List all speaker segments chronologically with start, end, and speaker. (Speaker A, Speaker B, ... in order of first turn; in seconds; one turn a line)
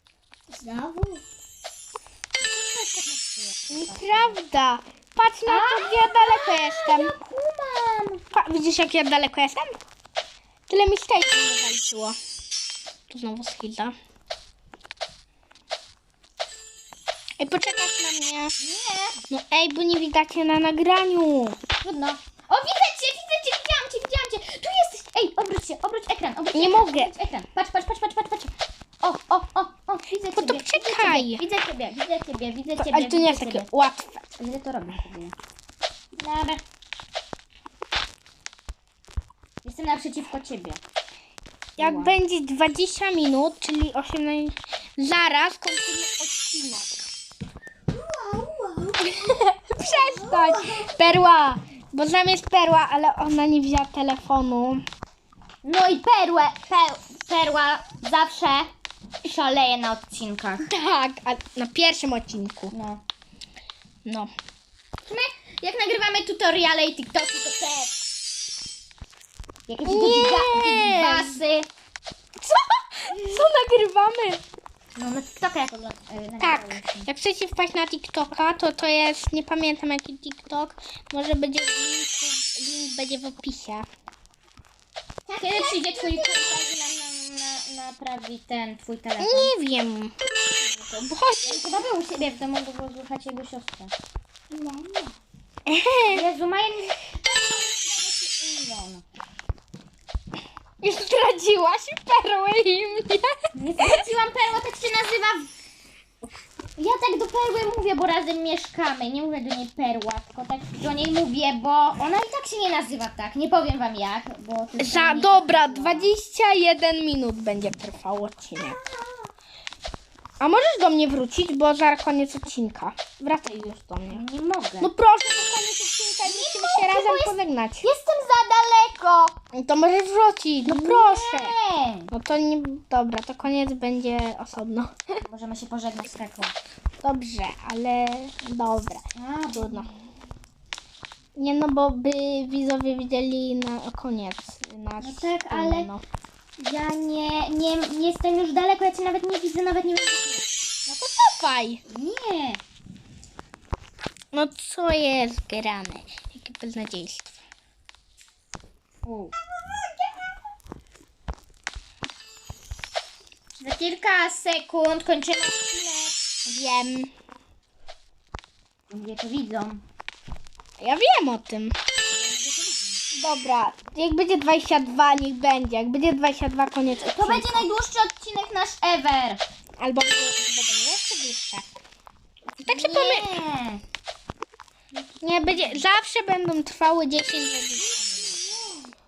Speaker A: 0.5-1.2
Speaker B: 2.4-4.4
Speaker C: 3.7-7.1
Speaker B: 5.5-8.2
Speaker C: 8.3-9.7
Speaker C: 10.7-12.2
Speaker C: 13.1-13.9
Speaker C: 17.4-18.5
Speaker B: 18.6-19.2
Speaker C: 19.3-21.6
Speaker B: 21.8-33.7
Speaker C: 26.5-27.1
Speaker C: 30.4-31.4
Speaker C: 32.8-34.2
Speaker B: 34.4-35.4
Speaker B: 36.2-36.6
Speaker B: 39.6-40.8
Speaker C: 41.8-47.1
Speaker B: 41.8-42.1
Speaker A: 47.9-50.9
Speaker C: 49.0-54.8
Speaker B: 55.6-58.7
Speaker B: 59.2-60.7
Speaker C: 60.6-62.7
Speaker B: 62.7-63.0
Speaker C: 64.0-64.3
Speaker B: 65.0-68.0
Speaker B: 69.7-71.7
Speaker C: 69.8-71.4
Speaker C: 72.4-74.4
Speaker B: 74.9-77.1
Speaker C: 76.4-83.9
Speaker A: 85.2-86.8
Speaker B: 85.4-89.5
Speaker C: 89.2-91.6
Speaker B: 91.4-93.9
Speaker A: 94.5-95.2
Speaker C: 95.7-96.2
Speaker B: 96.1-99.0
Speaker C: 100.8-104.1
Speaker B: 103.5-105.5
Speaker B: 106.8-116.1
Speaker C: 114.8-118.8
Speaker B: 118.7-119.1
Speaker C: 120.4-124.2
Speaker B: 124.1-124.9
Speaker C: 124.8-127.9
Speaker B: 126.2-129.4
Speaker C: 129.5-131.5
Speaker B: 130.6-132.1
Speaker C: 132.1-134.9
Speaker B: 135.2-136.5
Speaker C: 137.0-139.0
Speaker B: 139.1-140.0
Speaker C: 139.6-139.9
Speaker C: 141.4-146.0
Speaker B: 145.0-145.9
Speaker B: 146.6-150.7
Speaker C: 150.9-151.8
Speaker B: 151.9-152.6
Speaker C: 154.3-157.4
Speaker B: 159.0-159.3
Speaker B: 163.6-166.2
Speaker C: 166.4-167.1
Speaker B: 168.9-169.8
Speaker C: 170.8-171.8
Speaker B: 172.1-173.0
Speaker C: 173.1-177.7
Speaker B: 177.0-179.4
Speaker C: 179.8-181.7
Speaker C: 182.6-183.4
Speaker B: 182.7-183.8
Speaker B: 184.9-185.8
Speaker C: 185.2-188.1
Speaker B: 187.8-188.8